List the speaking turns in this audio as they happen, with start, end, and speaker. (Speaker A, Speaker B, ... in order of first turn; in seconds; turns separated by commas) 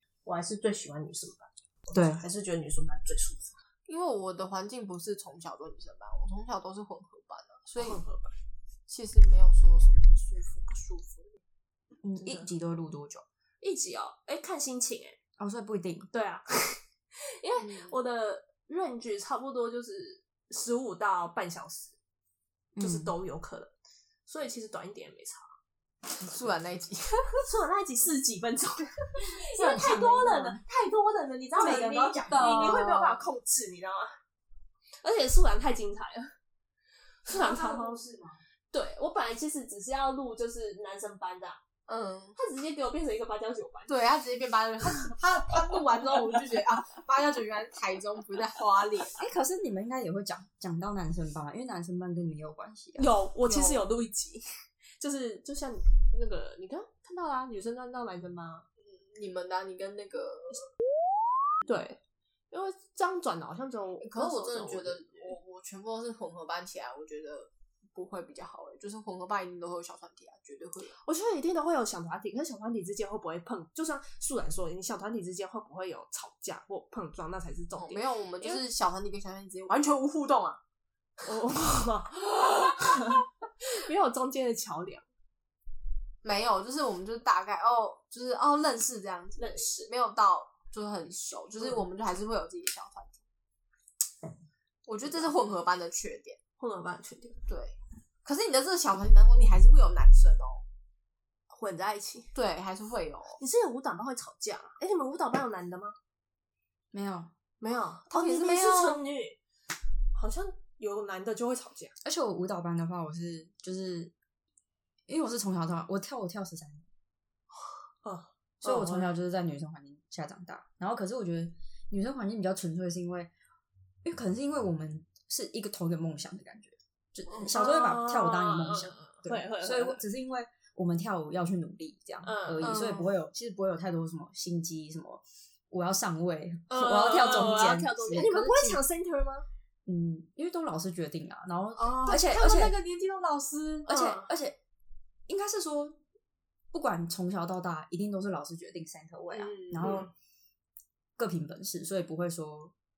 Speaker A: 0.2-3.5, Speaker B: 1.9-2.2, Speaker C: 3.9-8.0, Speaker A: 7.8-8.3, Speaker C: 8.9-11.4, Speaker B: 12.0-13.2, Speaker A: 12.2-12.5, Speaker A: 13.6-15.2, Speaker B: 15.4-16.1, Speaker A: 16.1-21.9, Speaker C: 17.6-17.9, Speaker B: 22.7-23.1, Speaker A: 22.8-23.7, Speaker A: 24.2-25.5, Speaker C: 26.1-27.4, Speaker A: 27.3-34.1, Speaker B: 29.6-30.6, Speaker C: 29.7-30.0, Speaker B: 31.6-32.9, Speaker C: 31.6-33.2, Speaker A: 35.0-36.3, Speaker A: 37.3-38.0, Speaker B: 37.3-38.4, Speaker A: 38.7-41.6, Speaker C: 41.9-42.4, Speaker A: 42.4-44.0, Speaker C: 43.9-49.2, Speaker B: 49.1-53.1, Speaker A: 53.0-54.4, Speaker C: 53.5-53.8, Speaker A: 55.0-58.6, Speaker C: 58.8-60.6, Speaker A: 61.6-62.0, Speaker A: 62.5-65.3, Speaker C: 64.0-71.0, Speaker A: 71.0-78.6, Speaker C: 77.8-80.6, Speaker A: 81.2-85.0, Speaker C: 86.2-93.2, Speaker A: 89.4-89.9, Speaker A: 91.6-91.8, Speaker C: 94.8-96.4, Speaker A: 96.6-97.4, Speaker C: 97.5-100.7, Speaker A: 101.5-102.3, Speaker C: 102.3-103.4, Speaker A: 103.4-105.9, Speaker B: 106.9-107.3, Speaker A: 107.6-109.4, Speaker C: 108.1-109.0, Speaker A: 110.1-111.9, Speaker B: 112.0-114.1, Speaker B: 115.1-116.9, Speaker A: 118.0-119.2, Speaker B: 118.6-123.3, Speaker B: 124.0-138.8, Speaker A: 127.4-130.0, Speaker A: 132.2-133.0, Speaker C: 132.6-133.1, Speaker A: 136.7-139.5, Speaker B: 139.9-142.8, Speaker C: 141.8-143.9, Speaker B: 143.9-144.6, Speaker A: 143.9-144.3, Speaker B: 145.3-146.0, Speaker B: 146.7-150.1, Speaker C: 149.3-150.1, Speaker B: 151.2-152.7